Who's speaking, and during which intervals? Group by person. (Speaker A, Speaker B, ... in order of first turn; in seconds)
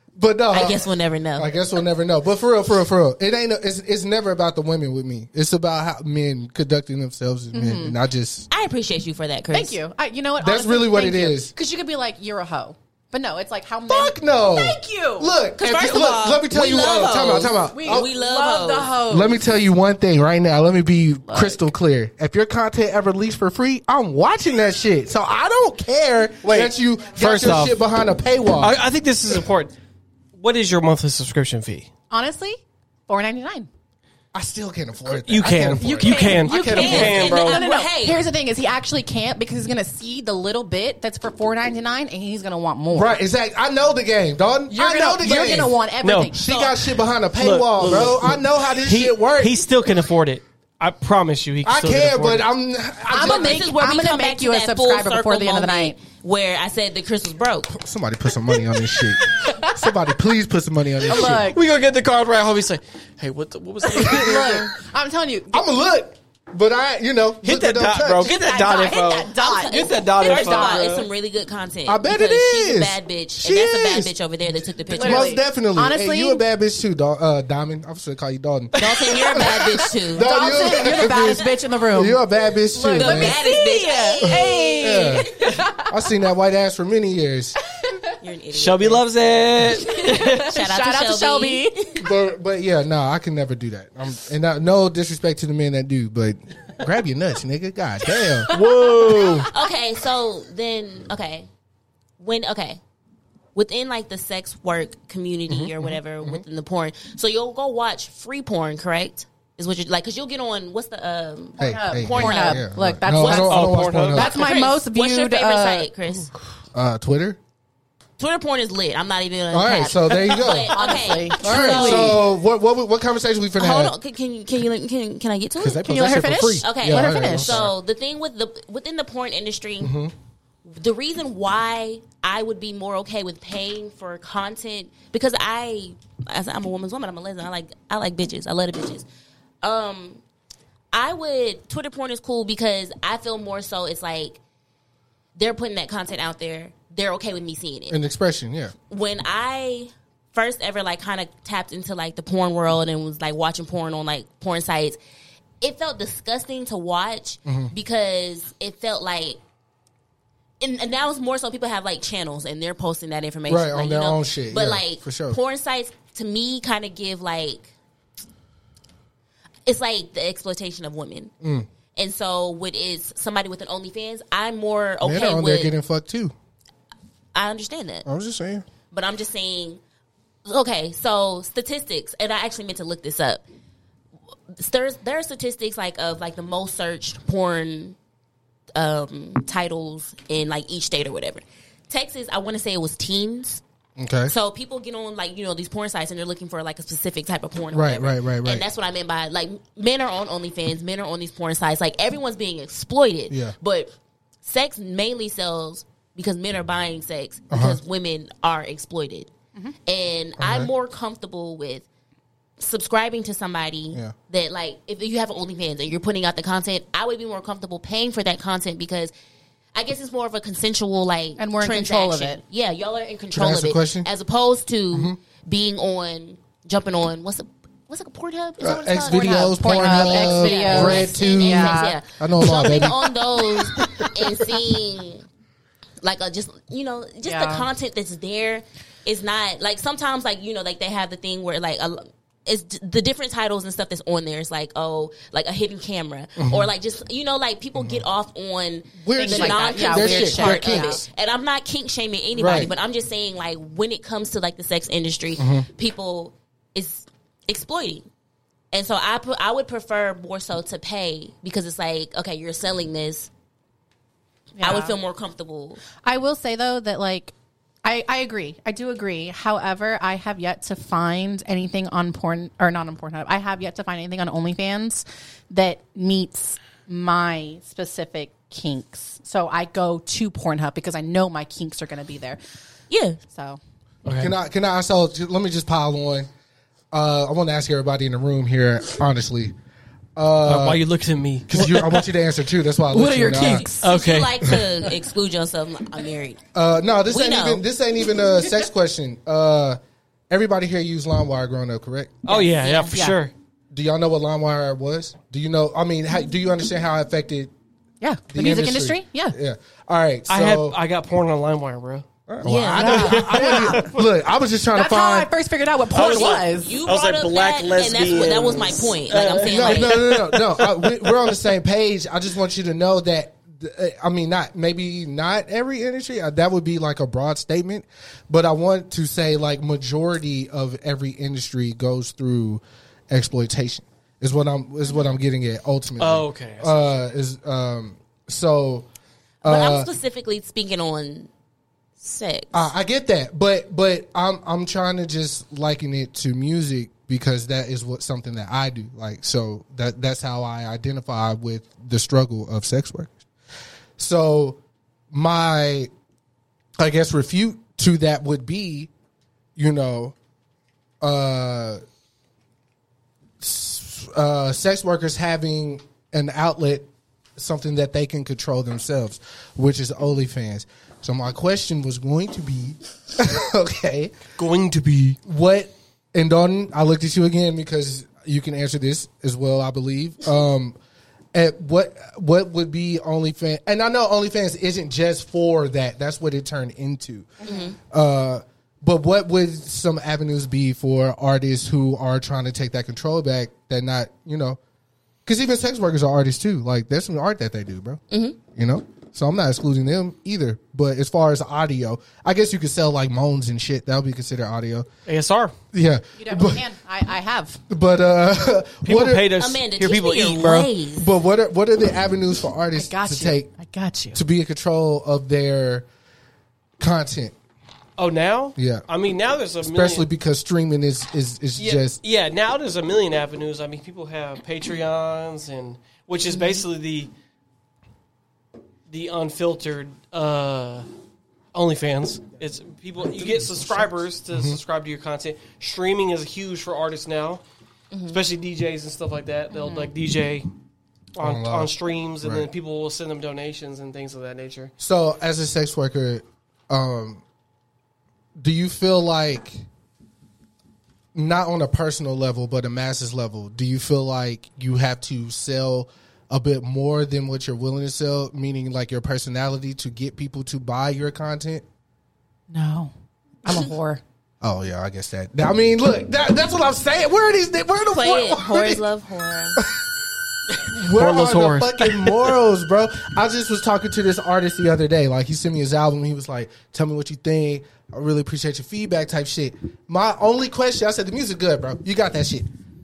Speaker A: 0.1-8.5, 10.4-11.5, 13.9-18.1, 19.1-28.8, 34.3-37.3, 42.9-45.8, 46.3-49.6, 51.6-53.7, 57.7-61.5, 65.5-68.3, 71.8-74.1, 74.9-83.4, 84.2-87.6, 92.0-98.5, 105.5-106.4, 111.6-114.3, 116.7-117.4, 119.5-123.9, 125.6-127.7, 129.8-130.1, 147.9-148.7, 157.4-157.7, 163.5-165.4, 171.4-171.7, 175.0-176.3, 178.0-178.6, 194.0-194.3, 197.7-198.6, 203.3-203.5, 207.5-207.8, 210.4-210.7, 223.3-224.1, 224.9-225.2, 228.6-234.1, 246.4-246.7, 247.7-248.0, 249.0-251.0, 252.3-252.7, 255.4-255.7, 284.2-286.3, 286.9-289.5, 290.1-290.8, 291.5-293.7, 296.5-299.8, 300.3-302.2, 303.7-307.5, 308.3-310.8, 312.3-315.3, 319.4-338.9, 339.4-339.9, 342.5-353.2, 354.0-354.6, 355.1-355.9, 356.8-358.9, 359.6-360.1, 361.0-361.8, 363.4-374.1, 375.2-380.8, 381.3-387.3, 387.9-394.6, 395.2-404.9, 405.7-406.6, 407.7-409.3, 411.0-413.5, 414.1-415.9, 416.8-417.3, 418.6-418.9, 419.6-422.0, 434.3-434.6, 441.2-442.5, 444.8-447.2, 448.4-449.6, 451.1-461.6, 464.4-468.8, 469.6-469.8, 470.6-482.5
Speaker B: 0.5-1.5, 8.5-9.8, 15.6-19.0, 36.7-38.2, 46.5-46.8, 53.2-57.7, 69.4-75.4, 78.7-80.3, 82.9-85.1, 88.2-89.0, 90.4-92.0, 99.5-101.5, 102.2-102.8, 103.5-113.5, 114.1-116.3, 118.2-122.2, 123.6-125.9, 126.6-129.9, 130.6-139.1, 139.6-140.2, 140.9-144.4, 145.3-148.0, 148.9-155.0, 155.6-159.4, 160.6-167.7, 169.7-171.3, 171.9-175.7, 177.3-178.1, 178.9-179.8, 180.4-183.4, 184.5-187.9, 188.7-193.6, 194.3-203.9, 204.4-209.3, 209.8-211.8, 212.6-219.1, 219.7-235.2, 236.0-258.1, 258.7-263.3, 264.6-265.8, 282.9-283.2, 293.8-296.4, 297.1-297.6, 302.3-303.1, 312.4-313.1, 315.9-320.0, 339.4-341.3, 342.0-342.7, 387.4-387.8, 398.1-398.4, 409.4-411.1, 437.9-438.2, 467.8-469.6
Speaker C: 7.5-8.0, 9.5-15.3, 16.7-19.4, 21.3-21.6, 32.1-33.7, 35.8-43.2, 44.7-46.4, 53.1-56.0, 58.9-59.9, 61.1-61.6, 63.9-65.7, 68.2-71.0, 74.9-76.4, 80.2-82.2, 82.7-85.9, 89.8-91.9, 98.4-99.5, 111.6-115.9, 120.7-122.2, 125.8-127.6, 221.4-222.4, 229.0-232.0, 237.2-237.7, 249.1-251.0, 264.6-264.9, 266.0-267.3, 267.8-282.4, 283.3-283.6, 293.0-293.9, 302.3-303.2, 308.0-309.4, 312.7-313.9, 314.7-316.8, 406.2-407.6, 412.7-414.2, 462.5-462.9, 463.4-464.0
Speaker D: 26.4-27.8, 28.6-29.7, 30.4-31.9, 35.1-37.6, 45.2-46.3, 47.4-52.5, 61.1-64.7, 67.4-71.0, 88.5-90.5, 98.5-99.5, 113.3-114.3, 284.0-284.3, 290.4-292.1, 293.1-294.6, 302.2-303.3, 310.3-312.0, 312.8-314.0, 315.9-321.2, 336.0-336.9, 374.4-375.2, 405.1-405.5, 408.8-410.7, 418.0-420.1, 421.6-427.1, 428.9-430.9, 431.5-437.4, 438.1-440.5, 441.1-444.7, 470.8-472.3